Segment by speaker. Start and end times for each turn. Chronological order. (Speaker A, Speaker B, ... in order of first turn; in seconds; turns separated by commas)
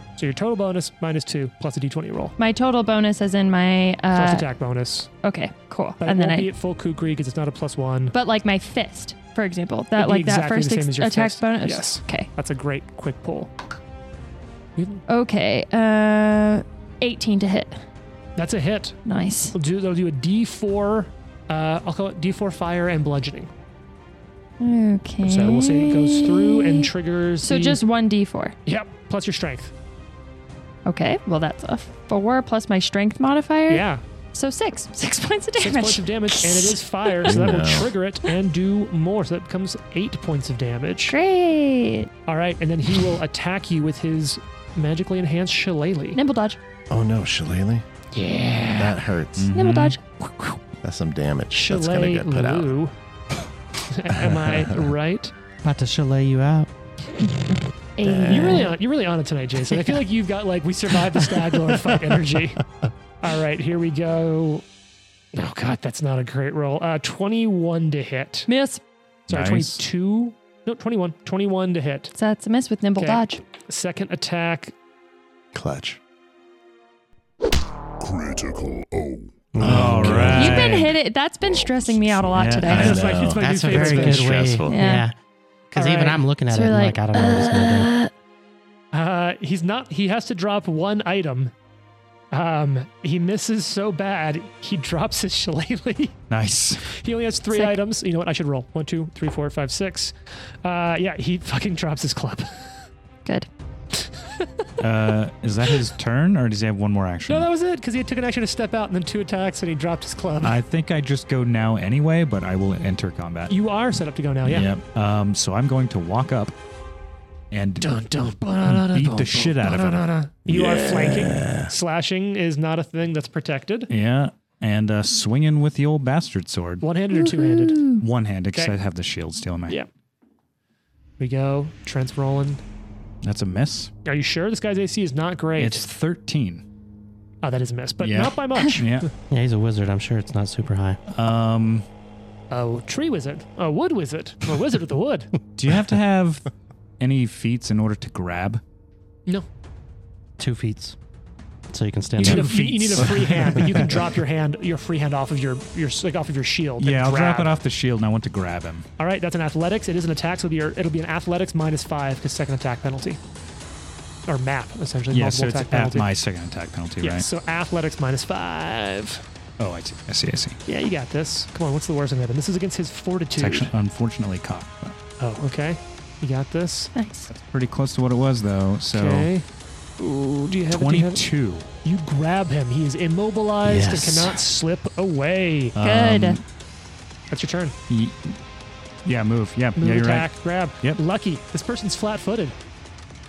Speaker A: 0.2-2.3, Speaker B: 2.4-4.5, Speaker A: 4.1-5.1, Speaker B: 5.2-6.5, Speaker A: 6.0-8.2, Speaker B: 8.1-12.3, Speaker A: 9.9-13.5, Speaker A: 14.8-15.0, Speaker B: 15.1-17.8, Speaker A: 18.4-19.0, Speaker B: 19.1-19.5, Speaker A: 19.5-23.5, Speaker B: 24.6-28.5, Speaker A: 25.2-27.8, Speaker A: 28.6-29.7, Speaker B: 30.9-37.5, Speaker A: 33.7-34.0, Speaker A: 35.5-41.2, Speaker C: 37.2-37.9, Speaker B: 41.1-42.1, Speaker A: 42.3-46.2, Speaker B: 46.1-46.6, Speaker C: 46.9-47.8, Speaker A: 48.1-49.0, Speaker C: 48.7-49.5, Speaker D: 49.4-50.0, Speaker B: 49.5-50.0, Speaker C: 50.8-52.7, Speaker A: 51.5-52.9, Speaker A: 53.9-55.3, Speaker C: 54.1-54.6, Speaker E: 55.6-56.7, Speaker B: 58.0-58.7, Speaker C: 58.0-58.7, Speaker A: 58.2-62.6, Speaker A: 63.2-64.6, Speaker A: 65.3-68.5, Speaker B: 68.5-68.8, Speaker A: 69.3-72.1, Speaker D: 69.3-69.8, Speaker B: 72.2-73.4, Speaker A: 73.0-74.7, Speaker C: 75.5-76.0, Speaker F: 78.0-79.6, Speaker E: 79.5-80.5, Speaker C: 79.6-80.7, Speaker D: 79.6-81.0, Speaker B: 80.3-83.2, Speaker F: 81.4-82.4, Speaker D: 82.3-83.0, Speaker A: 82.7-84.4, Speaker C: 82.7-85.0, Speaker E: 83.3-85.1, Speaker B: 84.7-85.0, Speaker E: 85.7-87.9, Speaker A: 85.7-86.2, Speaker B: 86.5-88.1, Speaker A: 88.9-91.5, Speaker A: 92.3-96.2, Speaker D: 96.3-96.9, Speaker A: 96.8-102.7, Speaker A: 103.9-104.7, Speaker D: 104.8-107.5, Speaker A: 107.3-110.6, Speaker D: 110.4-113.5, Speaker A: 113.5-114.7, Speaker D: 114.4-116.5, Speaker D: 117.5-118.0, Speaker A: 117.8-123.9, Speaker D: 118.7-120.1, Speaker C: 120.5-121.7, Speaker D: 123.9-126.8, Speaker A: 126.8-127.8, Speaker B: 127.1-128.0, Speaker D: 128.0-129.8, Speaker A: 131.2-132.6, Speaker D: 133.2-133.9, Speaker A: 134.0-135.8, Speaker D: 135.6-136.6, Speaker A: 137.4-139.1, Speaker D: 138.0-139.1, Speaker E: 139.3-141.0, Speaker D: 141.1-141.8, Speaker A: 142.5-145.3, Speaker D: 145.6-148.6, Speaker E: 150.4-151.0, Speaker E: 151.7-152.9, Speaker A: 152.2-157.5, Speaker D: 152.3-153.8, Speaker D: 156.8-158.9, Speaker A: 159.0-163.2, Speaker A: 164.3-166.1, Speaker D: 165.1-167.3, Speaker A: 167.0-169.2, Speaker D: 169.6-170.6, Speaker A: 170.7-173.7, Speaker D: 173.4-174.9, Speaker A: 175.2-176.9, Speaker B: 176.9-177.3, Speaker D: 177.3-179.3, Speaker A: 178.9-179.4, Speaker A: 180.0-181.3, Speaker D: 180.7-181.7, Speaker A: 181.8-185.8, Speaker E: 183.6-184.4, Speaker D: 185.8-186.4, Speaker B: 185.8-186.4, Speaker A: 187.3-187.8, Speaker D: 187.9-188.4, Speaker D: 189.0-191.0, Speaker A: 189.8-192.6